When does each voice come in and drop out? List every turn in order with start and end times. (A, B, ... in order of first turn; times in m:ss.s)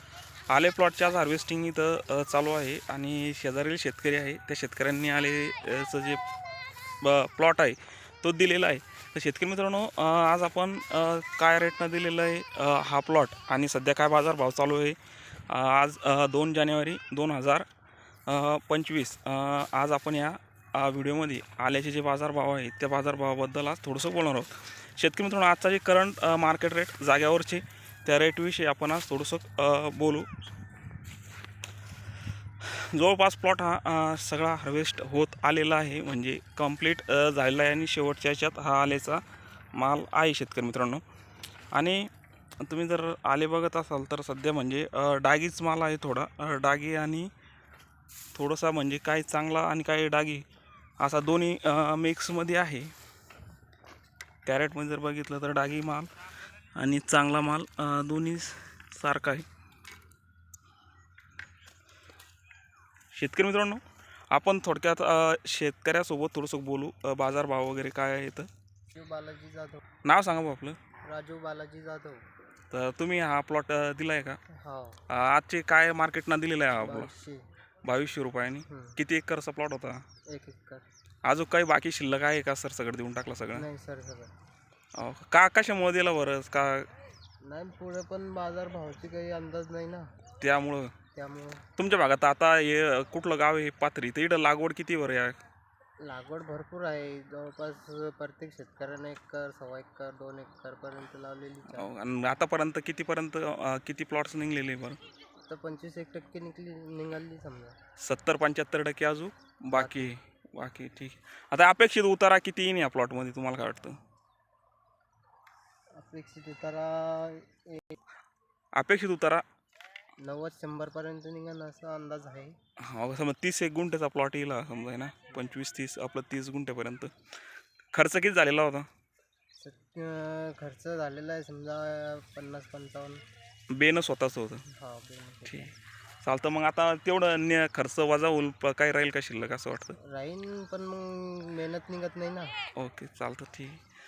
0:00.5-0:06.2 A
0:07.0-0:15.0 A
0:15.5-0:17.7 A
0:18.3-0:30.3 A
0:32.6-0:41.0 A
0:41.7-0:47.3 A
0:48.3-0:50.5 A
0:51.0-0:52.9 A
0:54.4-0:56.1 A
0:56.8-0:59.5 A
1:03.1-1:08.5 A
1:08.9-1:09.8 B
1:10.0-1:10.8 A
1:11.0-1:12.2 B
1:12.7-1:14.4 A
1:14.5-1:15.0 B
1:15.1-1:17.1 A
1:16.8-1:17.4 B
1:17.8-1:20.0 A
1:18.7-1:19.0 B
1:20.3-1:20.9 B
1:21.2-1:23.7 A
1:23.5-1:24.3 B
1:25.0-1:26.9 A
1:27.4-1:30.1 B
1:30.4-1:30.9 A
1:31.1-1:31.6 B
1:31.8-1:35.4 A
1:36.0-1:41.9 B
1:41.7-1:45.0 A
1:45.4-1:47.8 B
1:48.0-1:54.0 A
1:49.7-1:50.1 B
1:56.0-1:58.0 B
1:58.7-1:59.4 A
2:00.2-2:02.6 B
2:02.8-2:07.1 A
2:07.9-2:08.9 A
2:09.6-2:13.2 B
2:13.7-2:14.6 A
2:14.7-2:15.8 B
2:15.5-2:20.0 A
2:20.0-2:22.5 B
2:22.8-2:23.8 A